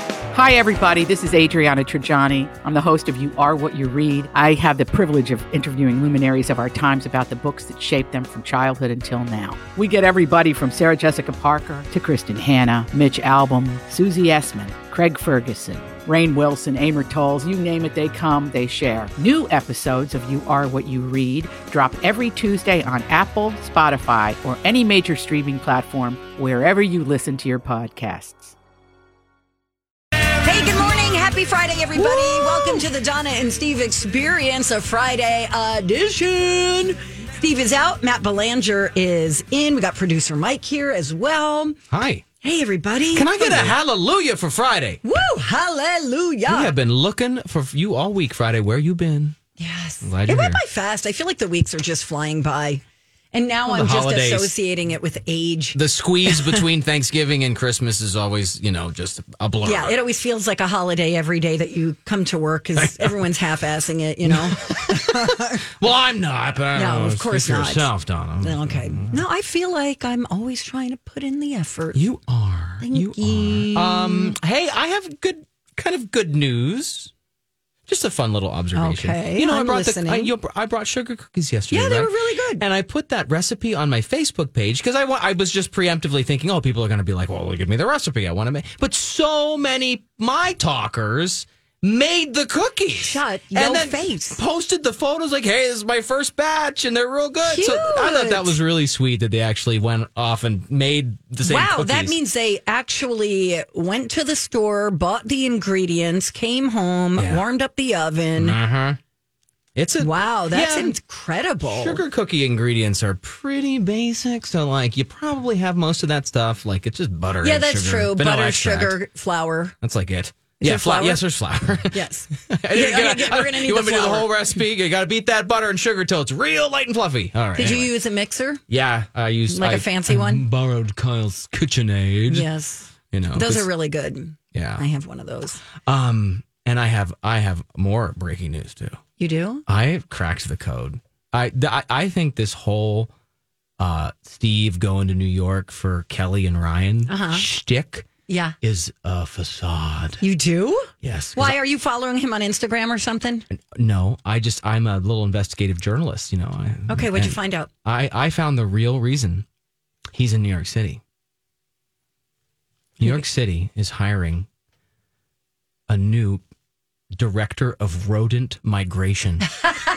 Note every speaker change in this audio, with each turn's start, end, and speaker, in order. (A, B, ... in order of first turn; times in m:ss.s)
0:00.3-0:28.6 A
0:30.4-0:41.8 B
0:41.9-0:42.2 C
0:42.4-0:43.8 B
0:43.1-0:45.0 C
0:45.0-0:46.7 B
0:46.5-0:49.4 C
0:49.6-0:52.8 B
0:50.0-0:50.6 C
0:53.3-0:56.6 B
0:53.7-0:54.5 C
0:55.7-1:00.0 C
0:59.6-1:05.6 B
1:02.8-1:03.2 C
1:04.2-1:09.2 C
1:06.8-1:07.9 B
1:08.4-1:12.1 B
1:11.9-1:17.1 C
1:12.8-1:14.4 B
1:17.9-1:42.2 C
1:18.8-1:20.3 B
1:21.7-1:22.6 B
1:32.9-1:34.4 B
1:37.4-1:38.6 B
1:41.4-1:48.6 B
1:47.2-1:47.4 C
1:48.4-1:49.0 C
1:49.8-1:51.0 C
1:50.0-1:52.0 B
1:51.6-1:59.0 C
1:57.4-1:59.8 B
1:59.8-2:07.9 C
2:00.6-2:01.2 B
2:01.9-2:04.3 B
2:07.6-2:08.6 B
2:08.7-2:12.5 C
2:09.5-2:10.4 B
2:12.3-2:15.6 B
2:13.1-2:13.7 C
2:14.5-2:14.8 C
2:15.8-2:19.0 C
2:19.2-2:19.6 B
2:19.7-2:23.1 C
2:23.8-2:28.1 C
2:27.1-2:27.4 B
2:28.3-2:28.6 B
2:28.6-2:30.2 C
2:30.2-2:33.5 B
2:31.0-2:31.6 C
2:33.5-2:39.5 C
2:36.9-2:37.7 B
2:40.1-2:41.0 C
2:43.0-2:44.5 C
2:45.9-2:46.4 C
2:47.1-2:49.5 C